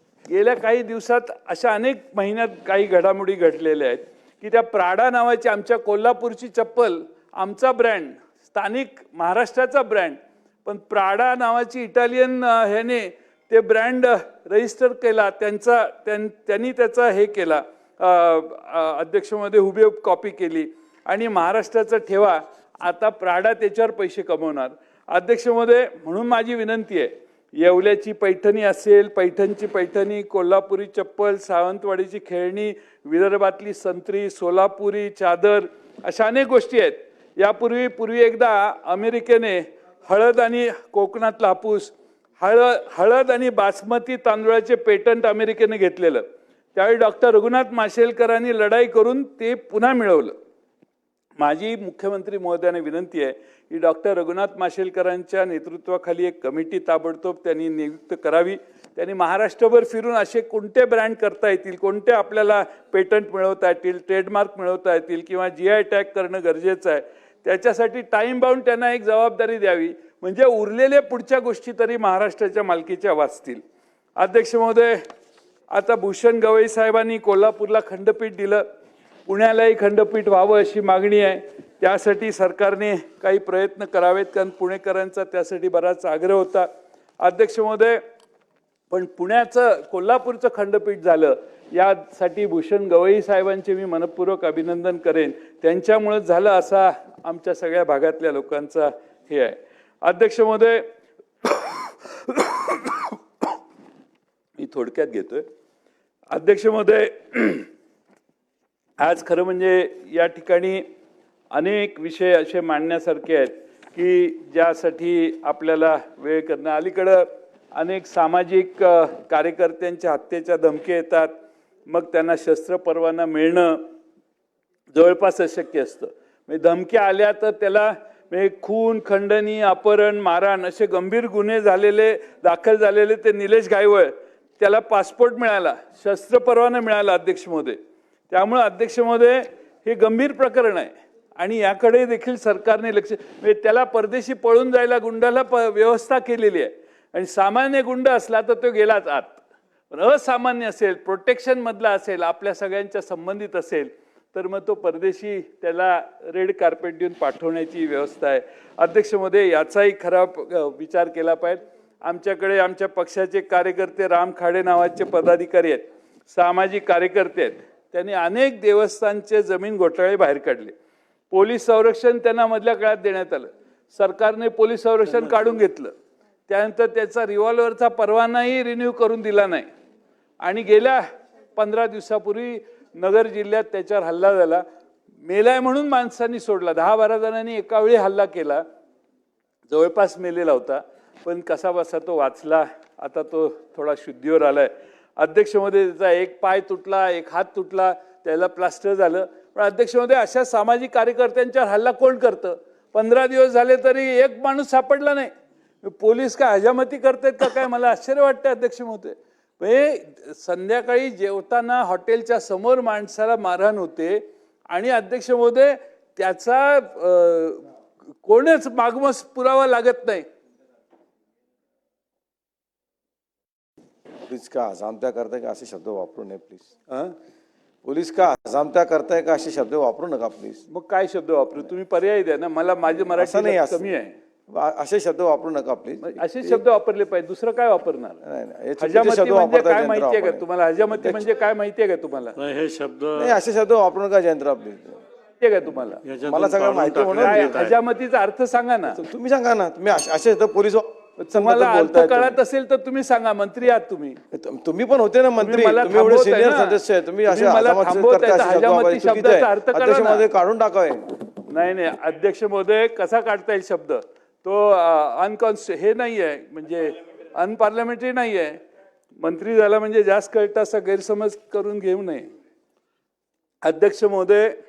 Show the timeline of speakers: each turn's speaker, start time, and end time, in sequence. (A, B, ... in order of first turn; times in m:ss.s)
0:00.3-0:50.4 A
0:51.4-1:13.6 A
1:14.2-1:15.0 A
1:15.7-1:18.7 A
1:19.3-1:26.7 A
1:27.2-1:28.0 A
1:28.9-1:40.9 A
1:41.4-1:43.2 A
1:44.6-1:45.5 A
1:46.3-1:47.7 A
1:49.0-1:50.8 A
1:51.5-2:01.3 A
2:01.9-2:03.9 A
2:04.9-2:17.8 A
2:18.3-2:50.8 A
2:51.3-2:55.9 A
2:56.5-2:59.7 A
3:00.4-3:04.6 A
3:05.2-3:08.6 A
3:09.7-3:25.3 A
3:25.8-3:37.7 A
3:38.2-3:40.3 A
3:44.3-3:46.8 B
3:47.8-3:50.6 B
3:50.7-3:54.2 A
3:53.2-3:53.8 B
3:54.5-3:56.6 B
3:56.0-3:58.2 A
3:58.2-4:00.4 B
3:58.8-4:02.4 A
4:02.4-4:03.4 C
4:03.2-4:05.0 B
4:05.4-4:06.0 A
4:06.0-4:07.8 C
4:06.2-4:07.6 B
4:07.2-4:09.0 A
4:08.9-4:12.4 B
4:11.2-4:14.2 A
4:14.3-4:21.2 B
4:15.4-4:20.3 A
4:21.5-4:28.6 A
4:29.2-4:32.3 A
4:33.6-4:34.6 A